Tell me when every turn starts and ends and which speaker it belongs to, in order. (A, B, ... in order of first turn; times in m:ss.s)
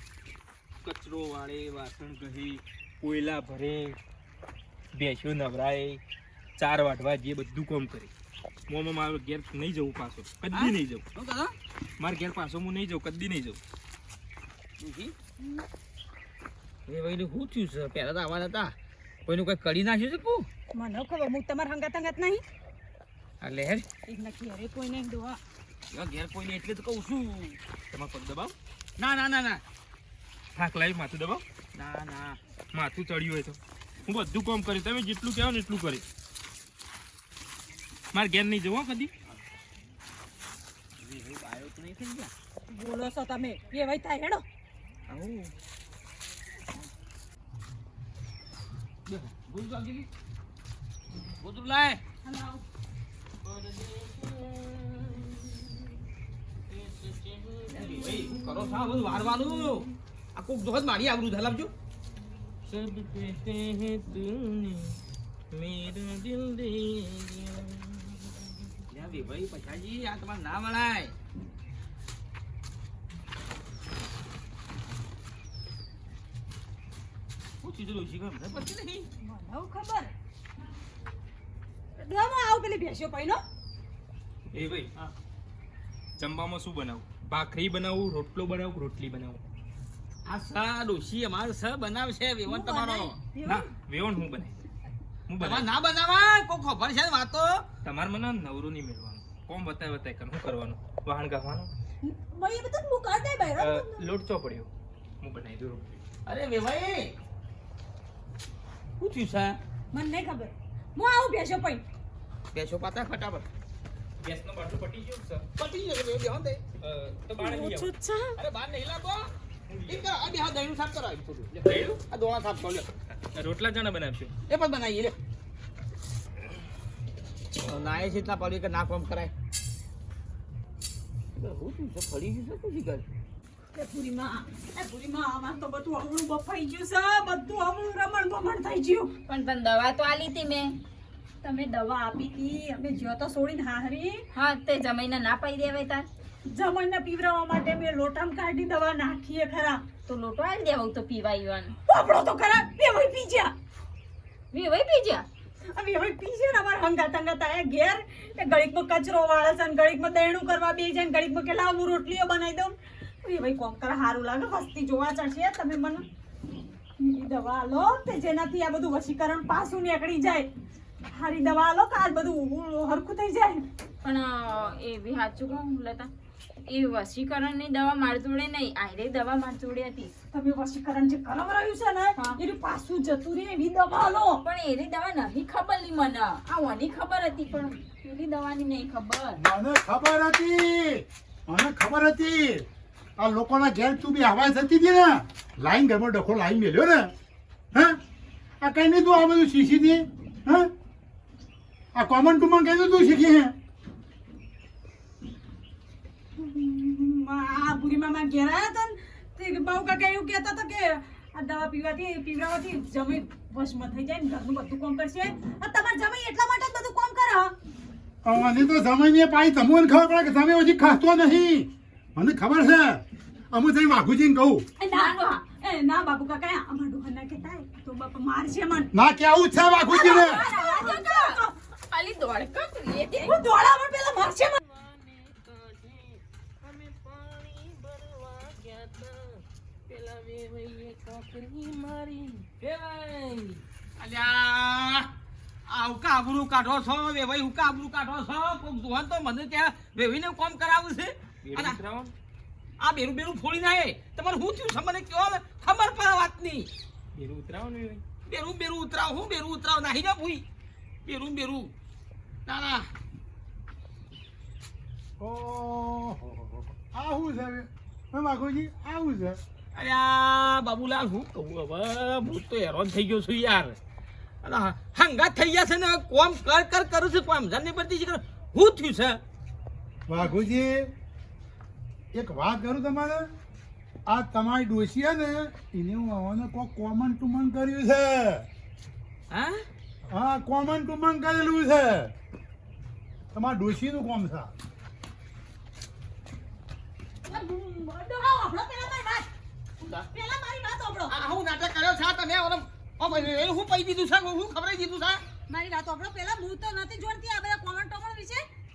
0:00.8-0:04.0 A
0:04.9-0:06.0 A
0:06.6-0:08.1 A
0:08.7-0:11.0 A
0:10.5-0:11.5 B
0:12.0-0:13.6 A
0:14.8-0:15.1 B
0:16.9-0:18.8 B
0:19.2-0:20.5 B
0:20.7-0:22.4 C
0:23.4-0:23.8 B
0:24.1-0:25.4 C
0:25.9-0:27.6 B
0:27.9-0:28.5 A
0:29.0-0:29.6 B
0:30.5-0:31.4 A
0:31.7-0:32.4 B
0:32.7-0:36.0 A
0:38.1-0:39.1 A
0:41.0-0:42.3 B
0:42.7-0:44.4 C
0:45.1-0:45.5 B
0:49.1-0:50.1 B
0:51.4-0:52.0 B
0:52.2-0:52.6 C
0:53.4-0:55.6 A
0:56.7-0:59.8 A
0:57.7-1:01.7 B
1:02.7-1:05.0 A
1:05.5-1:08.3 A
1:08.9-1:11.1 B
1:17.6-1:19.1 B
1:19.2-1:20.1 C
1:22.0-1:23.4 C
1:24.5-1:24.9 A
1:26.2-1:29.4 A
1:30.2-1:33.2 B
1:32.4-1:33.7 C
1:33.4-1:34.7 A
1:35.3-1:35.7 A
1:35.4-1:37.6 B
1:37.8-1:41.7 A
1:42.0-1:44.0 C
1:43.6-1:44.7 A
1:45.2-1:46.0 A
1:46.2-1:47.1 B
1:49.0-1:49.6 B
1:49.9-1:51.8 C
1:52.5-1:53.5 B
1:54.2-1:55.4 A
1:55.6-1:56.6 B
1:56.8-1:57.9 A
1:57.4-1:58.4 C
1:58.4-1:59.3 B
1:59.7-2:00.1 A
1:59.8-2:01.6 B
2:01.6-2:02.0 A
2:02.1-2:02.9 B
2:03.2-2:04.3 A
2:04.5-2:05.2 B
2:07.6-2:09.3 B
2:11.3-2:13.0 B
2:13.7-2:19.1 C
2:19.3-2:20.8 D
2:21.4-2:24.2 C
2:24.3-2:26.1 D
2:26.5-2:29.8 C
2:30.1-2:31.8 D
2:31.9-2:33.5 C
2:34.5-2:35.2 D
2:35.7-2:46.0 C
2:47.0-2:50.5 C
2:51.1-2:53.6 C
2:54.0-2:56.1 D
2:56.6-3:00.1 D
3:00.3-3:04.4 C
3:02.2-3:02.4 D
3:04.4-3:09.4 D
3:09.4-3:12.6 E
3:13.2-3:17.1 E
3:17.7-3:18.0 E
3:18.6-3:20.7 E
3:21.9-3:23.5 E
3:26.4-3:37.5 C
3:38.2-3:44.6 E
3:44.8-3:48.9 C
3:44.9-3:45.4 D
3:48.9-3:50.4 E
3:49.9-3:53.4 D
3:49.9-3:51.5 C
3:53.2-3:54.6 C
3:54.6-4:03.6 A
4:04.0-4:05.1 B
4:05.7-4:11.8 B
4:11.4-4:12.1 A
4:12.8-4:16.7 B
4:17.1-4:18.0 A
4:18.2-4:20.4 B
4:21.0-4:21.7 B
4:22.4-4:22.9 B
4:25.2-4:29.4 E
4:29.8-4:33.8 B
4:34.4-4:39.2 B
4:40.1-4:40.9 E
4:42.1-4:43.2 E
4:44.1-4:48.5 E
4:49.3-4:49.6 B
4:50.1-4:52.1 E
4:53.3-4:54.5 E
4:57.3-4:59.3 C
4:59.8-5:00.1 B
5:00.1-5:01.1 C
5:01.1-5:05.2 B
5:05.5-5:08.4 C